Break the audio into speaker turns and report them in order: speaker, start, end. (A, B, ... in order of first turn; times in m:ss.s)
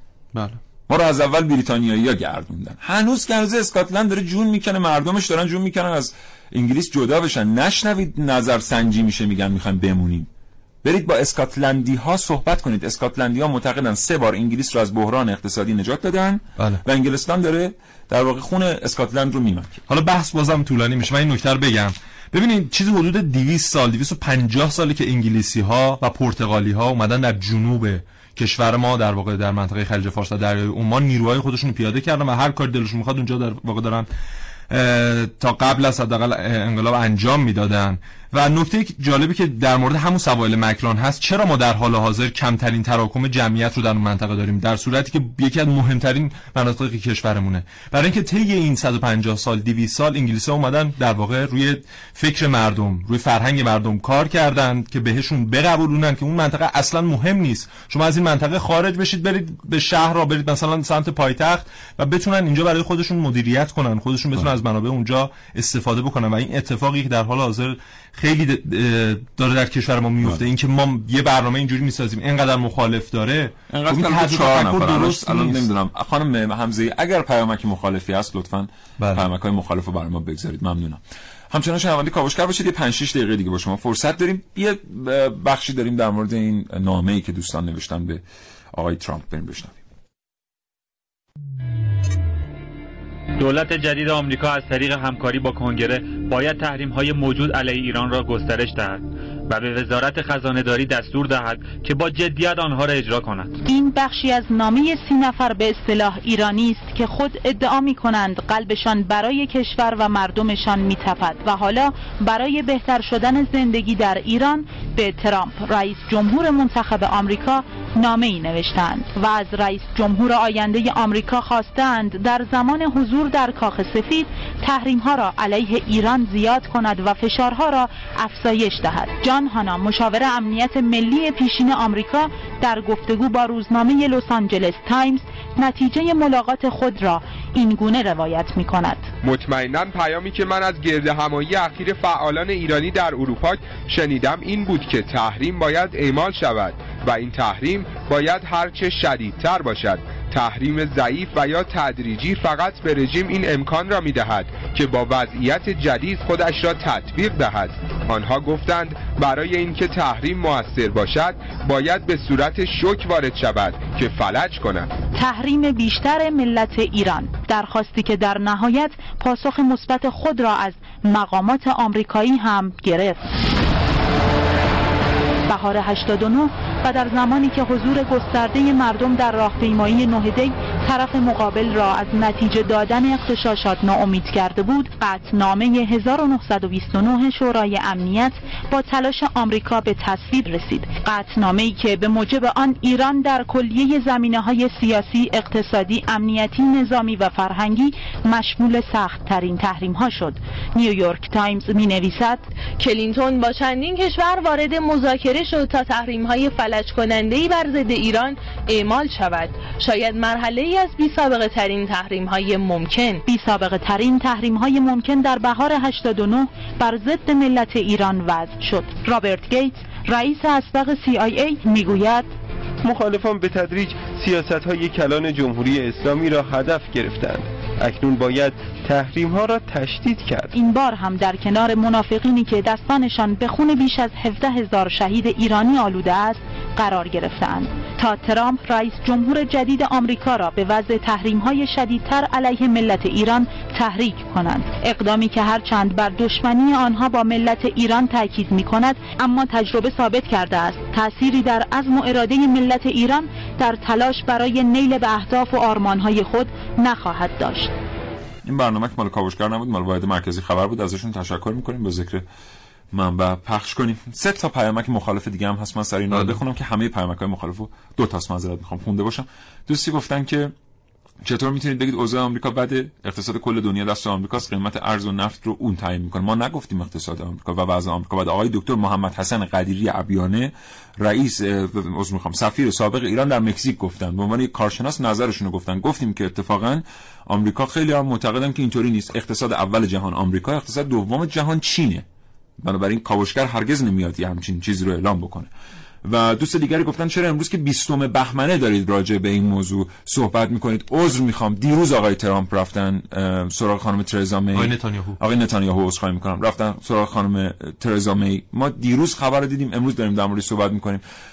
0:00.3-0:00.6 A
0:00.9-0:10.3 B
0:10.8-0:19.8 B
0:16.6-0:16.8 A
0:19.9-0:34.1 A
0:34.7-1:15.7 A
1:13.7-1:29.8 B
1:33.4-1:43.5 C
1:43.7-2:19.1 D
2:19.2-2:44.9 E
2:45.2-2:53.3 D
2:55.5-3:22.4 D
3:22.8-3:33.2 F
3:33.3-3:42.3 D
3:42.8-3:50.5 G
3:50.5-4:17.7 D
4:18.4-4:22.2 B
4:22.9-4:30.5 B
4:26.1-4:26.4 A
4:31.2-4:52.0 B
4:52.6-4:55.5 B
4:56.0-5:11.0 B
5:04.5-5:05.2 A